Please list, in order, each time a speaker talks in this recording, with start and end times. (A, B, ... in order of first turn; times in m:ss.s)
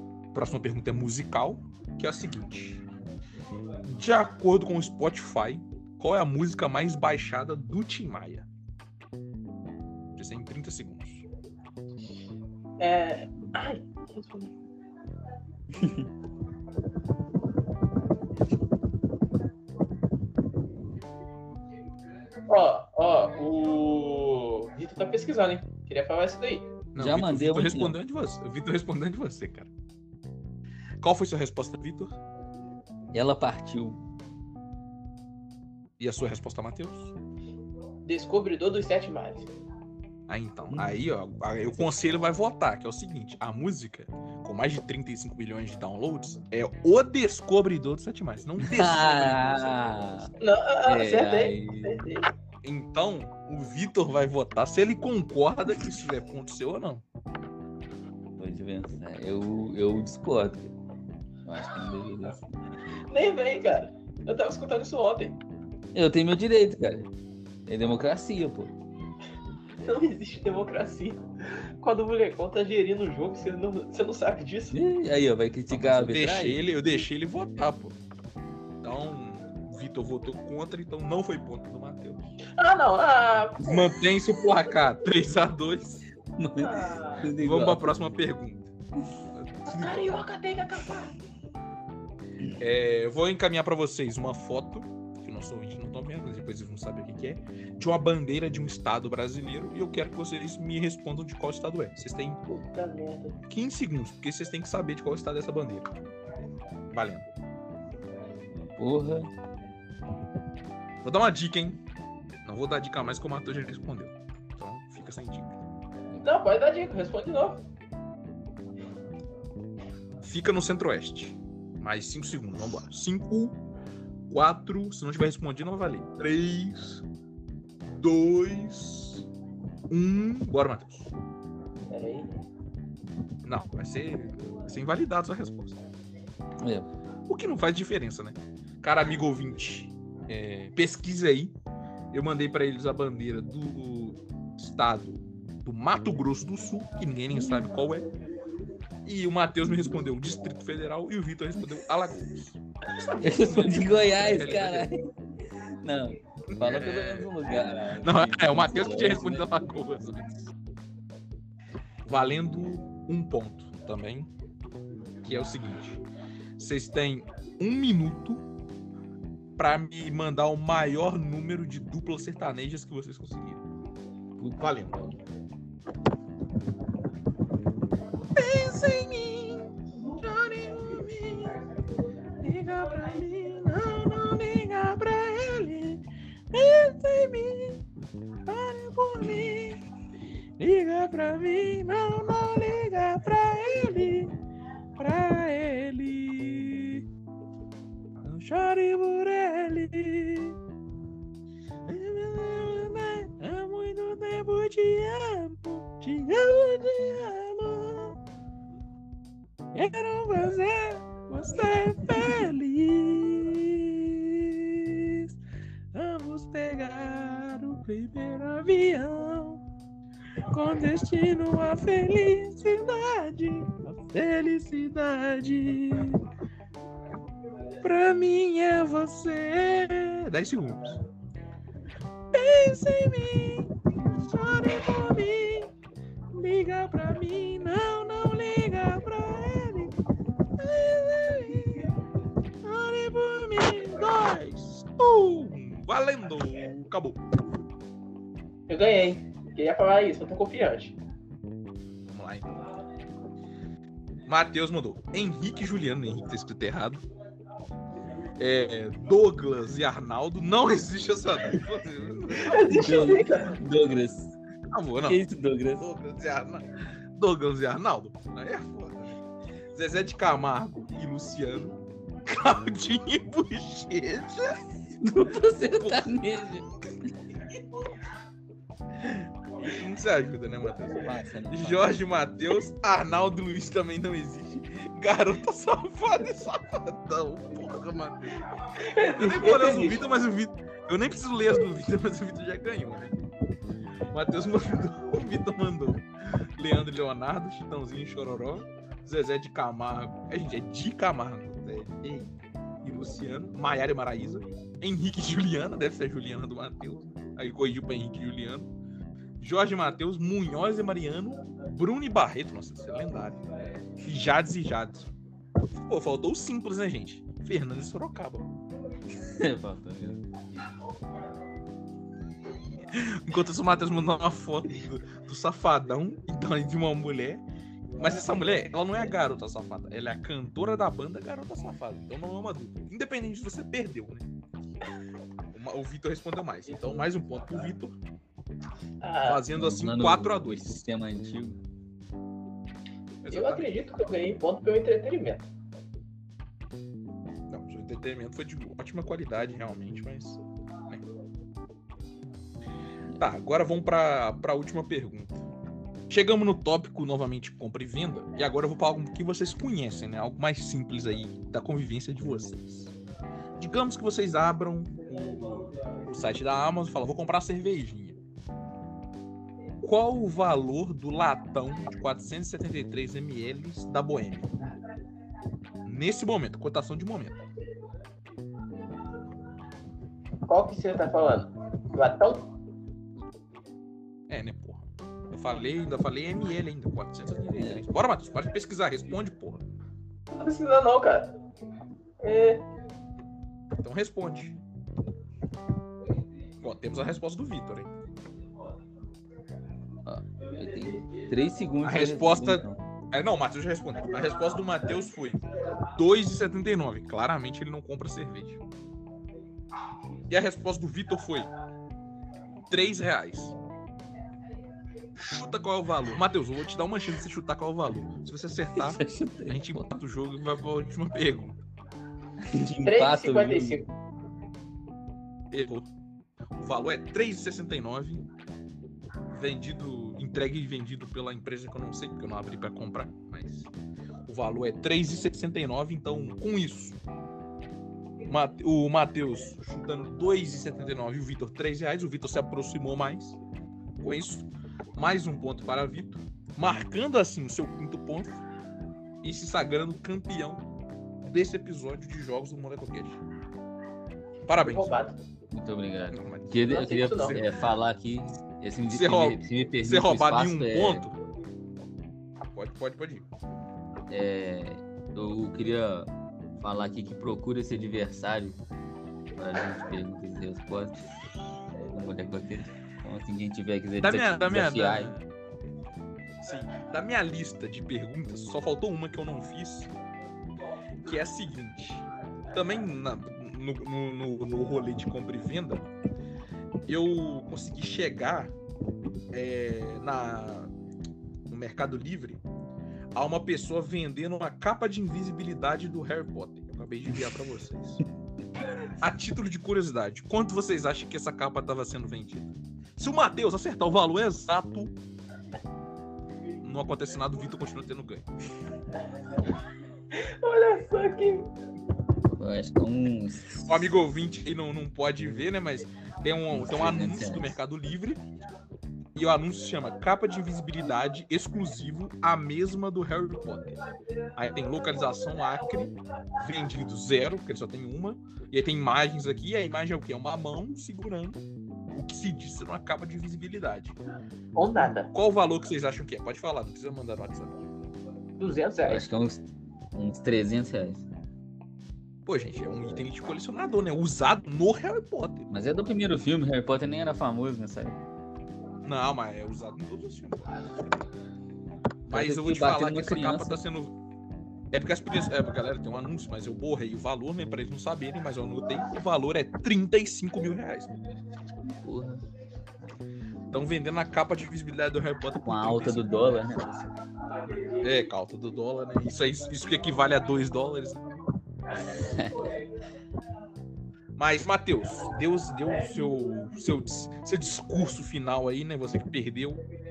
0:00.3-0:02.8 A
0:03.8-0:08.5 A
0:10.1-0:11.2 A
0:12.8-0:14.5 B
0:15.8-0:16.0 C
0:22.5-0:26.7 B
0:26.9-0:29.7 A
0:27.0-0:28.0 C
0:31.0-0:32.1 A
0:33.1-0:34.0 C
0:36.0-0:37.1 A
0:38.0-0:39.5 B
0:40.3-0:49.8 A
0:48.6-0:50.3 C
0:50.4-0:52.2 B
0:50.9-0:52.0 C
0:52.6-0:57.0 A
0:58.4-1:00.7 C
1:01.4-1:02.6 C
1:03.1-1:05.4 B
1:05.9-1:07.1 C
1:07.6-1:08.7 C
1:09.8-1:14.7 B
1:14.7-1:16.6 C
1:15.7-1:18.0 A
1:18.8-1:22.3 A
1:22.5-1:24.0 B
1:23.6-1:26.0 A
1:26.4-1:27.9 C
1:26.6-1:27.3 B
1:27.4-1:28.7 A
1:29.3-1:30.1 A
1:29.7-1:31.1 B
1:32.6-1:42.4 A
1:42.5-1:43.4 B
1:43.5-1:45.9 A
1:46.9-1:47.2 A
1:48.8-1:49.3 C
1:51.0-1:51.8 A
1:52.4-1:55.6 A
1:56.2-1:57.6 B
2:00.2-2:03.6 A
2:04.3-2:07.0 A
2:07.9-2:09.3 A
2:09.9-2:11.1 A
2:11.9-2:12.3 B
2:13.4-2:15.8 A
2:16.6-2:16.9 C
2:17.3-2:21.6 A
2:22.1-2:28.1 A
2:27.4-2:27.7 C
2:29.0-2:34.9 A
2:33.2-2:35.1 C
2:35.8-2:39.5 C
2:36.5-2:37.4 A
2:38.0-2:40.2 A
2:42.0-2:44.3 A
2:45.2-2:46.0 A
2:46.6-2:48.4 A
2:49.6-2:53.6 A
2:54.6-2:55.0 A
2:58.4-3:01.6 A
3:02.4-3:07.8 A
3:08.4-3:09.8 A
3:10.6-3:14.3 A
3:15.0-3:17.1 A
3:18.2-3:20.6 A
3:21.9-3:28.2 A
3:29.7-3:35.4 A
3:35.9-3:39.6 A
3:40.5-3:46.2 A
3:47.8-3:51.0 A
3:52.3-3:55.7 A
3:56.3-3:59.9 A
4:00.6-4:01.9 A
4:02.6-4:07.2 A
4:08.7-4:11.0 B
4:12.1-4:12.5 A
4:14.2-4:17.0 A
4:18.4-4:23.1 A
4:22.3-4:23.6 B
4:22.7-4:24.4 C
4:24.7-4:25.2 A
4:25.1-4:25.9 C
4:25.8-4:29.2 A
4:29.7-4:34.6 A
4:35.0-4:37.1 C
4:35.1-4:36.2 A
4:39.0-4:48.5 A
4:41.0-4:41.9 C
4:48.8-4:50.0 B
4:49.0-4:53.1 A
4:54.1-5:08.7 A
5:09.4-5:13.4 A
5:14.0-5:15.1 A
5:15.7-5:18.5 A
5:19.2-5:20.2 C
5:22.9-5:27.4 A
5:28.0-5:34.3 A
5:35.5-5:38.0 A
5:39.0-5:39.5 B
5:39.2-5:40.8 A
5:39.5-5:41.6 C
5:43.2-5:43.7 A
5:43.3-5:45.4 B
5:47.5-5:51.0 A
5:53.2-5:55.4 A
5:56.1-6:02.9 A
6:03.6-6:08.2 A
6:09.8-6:14.5 A
6:15.8-6:17.4 A
6:20.5-6:22.5 B
6:24.3-6:29.6 A
6:27.6-6:27.8 C
6:30.3-6:31.3 B
6:32.2-6:32.6 B
6:33.8-6:34.6 A
6:36.6-6:37.9 A
6:40.0-6:42.8 C
6:41.8-6:48.6 A
6:50.3-6:51.5 A
6:52.7-6:53.6 A
6:55.2-7:01.6 A
6:58.8-7:00.0 C
7:02.4-7:03.9 C
7:02.8-7:03.9 B
7:05.5-7:05.9 A
7:06.6-7:08.3 A
7:09.3-7:13.7 A
7:14.2-7:17.0 A
7:18.3-7:23.4 A
7:24.0-7:28.4 A
7:29.2-7:30.6 A
7:31.2-7:33.2 A
7:34.5-7:35.1 A
7:34.6-7:35.2 B
7:35.5-7:41.1 C
7:36.1-7:37.4 A
7:36.6-7:37.4 B
7:38.9-7:41.1 A
7:42.5-7:43.3 A
7:44.1-7:48.6 C
7:49.4-7:51.0 C
7:51.9-7:55.1 C
7:54.0-7:55.3 A
7:56.4-7:59.9 A
8:01.0-8:05.9 A
8:06.9-8:08.5 A
8:09.3-8:10.7 A
8:11.5-8:12.4 A
8:13.1-8:18.0 A
8:19.0-8:24.9 A
8:26.6-8:28.3 A
8:30.1-8:31.5 B
8:32.4-8:33.8 C
8:33.6-8:38.2 A
8:36.5-8:37.6 C
8:39.1-8:43.8 A
8:44.4-8:51.4 A
8:51.9-8:54.0 A
8:54.6-8:55.1 B
8:55.1-8:57.6 A
8:58.4-8:59.1 B
8:58.9-9:01.1 C
9:02.2-9:05.5 A
9:05.5-9:08.0 C
9:08.8-9:10.9 A
9:12.0-9:14.0 A
9:12.1-9:13.6 C
9:14.7-9:21.0 A
9:21.8-9:22.2 C
9:23.5-9:26.3 A
9:25.4-9:26.9 C
9:27.8-9:31.0 A
9:31.9-9:32.5 C
9:34.2-9:39.6 A